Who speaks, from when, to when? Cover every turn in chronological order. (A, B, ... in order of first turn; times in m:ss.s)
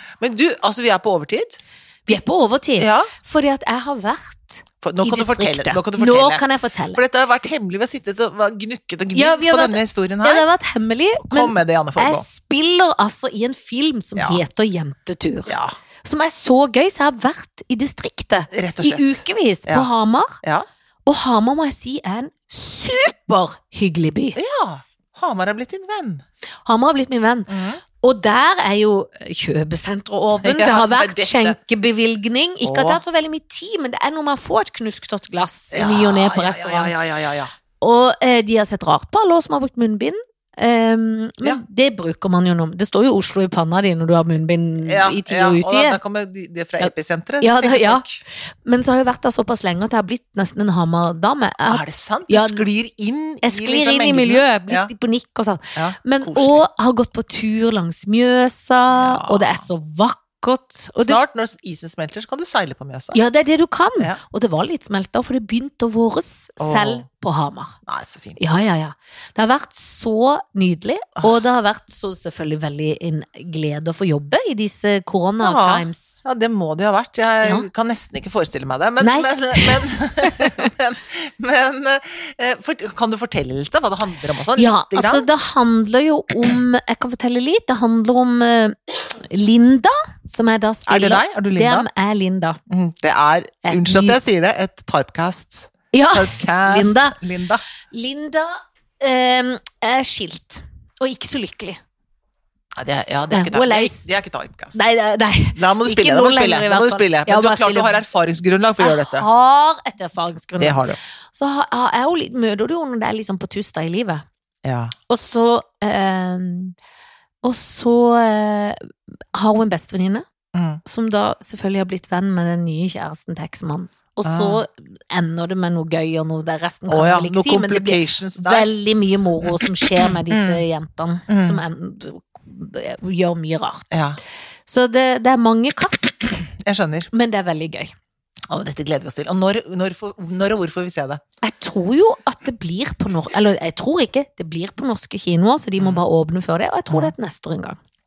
0:00.2-0:02.2 A
0:02.1-0:07.0 B
0:02.8-0:03.1 A
0:04.8-0:10.4 A
0:09.1-0:20.4 B
0:11.2-0:12.2 A
0:14.2-0:14.4 A
0:15.5-0:15.8 A
0:18.5-0:19.9 A
0:21.0-0:24.4 B
0:24.4-0:26.2 A
0:26.6-0:27.5 B
0:27.5-0:27.8 A
0:28.0-0:36.9 B
0:30.4-0:31.6 A
0:32.6-0:33.0 A
0:35.7-0:37.5 A
0:37.8-0:46.0 B
0:44.8-0:48.2 A
0:46.8-0:48.0 B
0:48.6-0:52.7 B
0:51.7-0:54.9 A
0:53.4-1:01.2 B
0:55.7-0:56.6 A
0:58.9-0:59.6 A
1:01.0-1:03.2 A
1:03.1-1:07.8 B
1:06.6-1:07.0 A
1:07.8-1:08.6 A
1:08.4-1:16.2 B
1:15.4-1:25.3 A
1:19.0-1:20.7 B
1:24.6-1:32.6 B
1:30.9-1:31.9 A
1:32.7-1:37.6 A
1:33.6-1:34.2 B
1:35.9-1:37.2 B
1:37.9-1:41.8 B
1:42.8-1:44.8 A
1:43.3-1:44.0 B
1:44.7-1:48.0 B
1:45.5-1:49.2 A
1:48.8-1:50.8 B
1:50.6-1:51.0 A
1:51.3-1:54.2 B
1:54.6-1:54.9 A
1:55.1-1:56.7 B
1:57.4-1:58.8 B
1:59.3-2:00.2 B
2:00.5-2:00.8 A
2:00.8-2:13.9 B
2:04.2-2:04.6 A
2:06.9-2:08.7 A
2:09.4-2:10.6 A
2:11.3-2:11.6 A
2:13.9-2:14.2 A
2:14.6-2:16.4 B
2:16.4-2:17.1 A
2:17.1-2:17.9 B
2:18.5-2:21.2 A
2:21.4-2:27.8 B